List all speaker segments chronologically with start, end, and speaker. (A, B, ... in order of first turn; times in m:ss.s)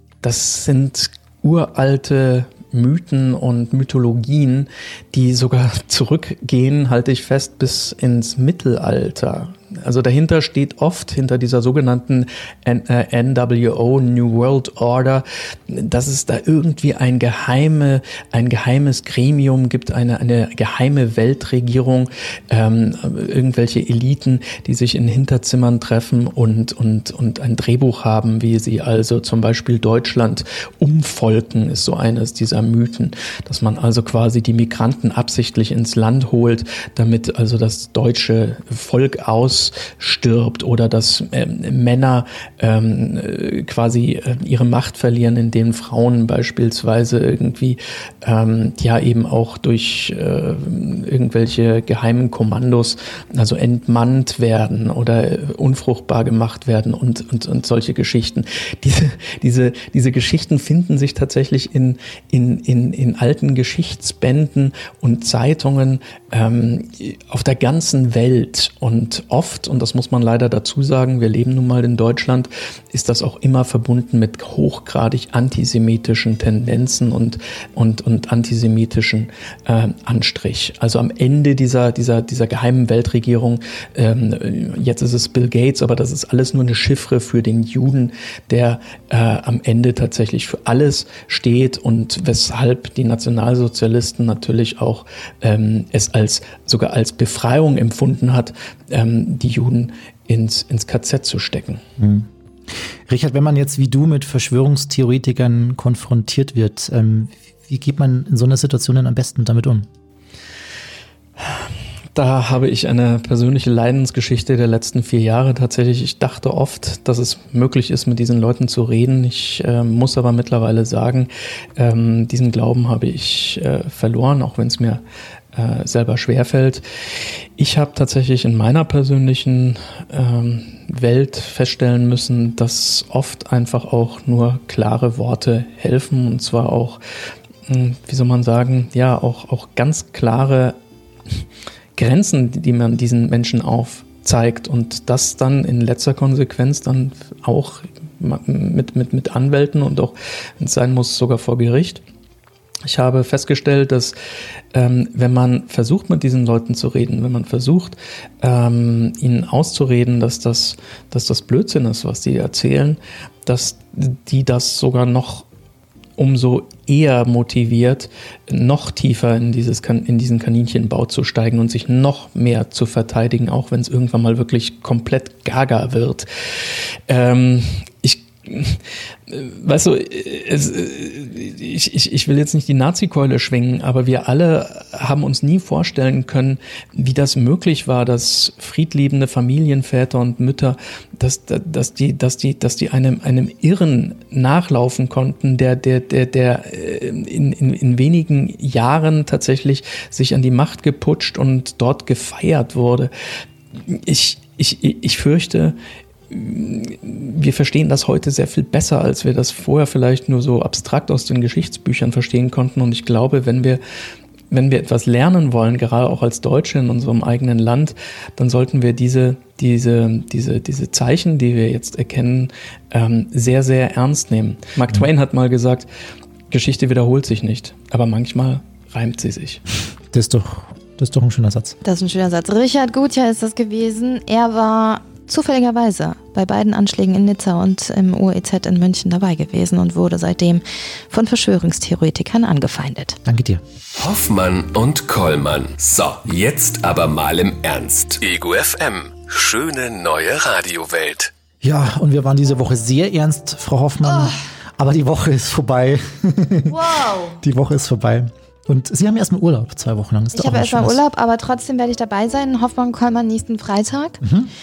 0:00.2-1:41.8 A
1:42.0-1:42.3 B
1:43.1-1:49.9 B
1:52.1-2:05.0 A
2:05.5-2:17.0 A
2:17.7-2:20.8 A
2:22.0-2:32.0 A
2:32.8-2:34.2 A
2:34.7-2:45.4 A
2:46.2-2:56.3 A
2:57.1-3:23.1 A
3:23.7-3:25.8 A
3:26.3-3:33.8 A
3:34.5-3:45.9 A
3:46.5-3:49.6 A
3:50.1-3:51.8 B
3:51.8-4:03.2 C
4:03.2-4:03.6 B
4:04.0-4:11.3 D
4:11.6-4:16.8 B
4:14.1-4:14.3 C
4:16.7-4:17.4 C
4:17.4-4:21.0 B
4:20.3-4:24.2 C
4:24.2-4:24.5 B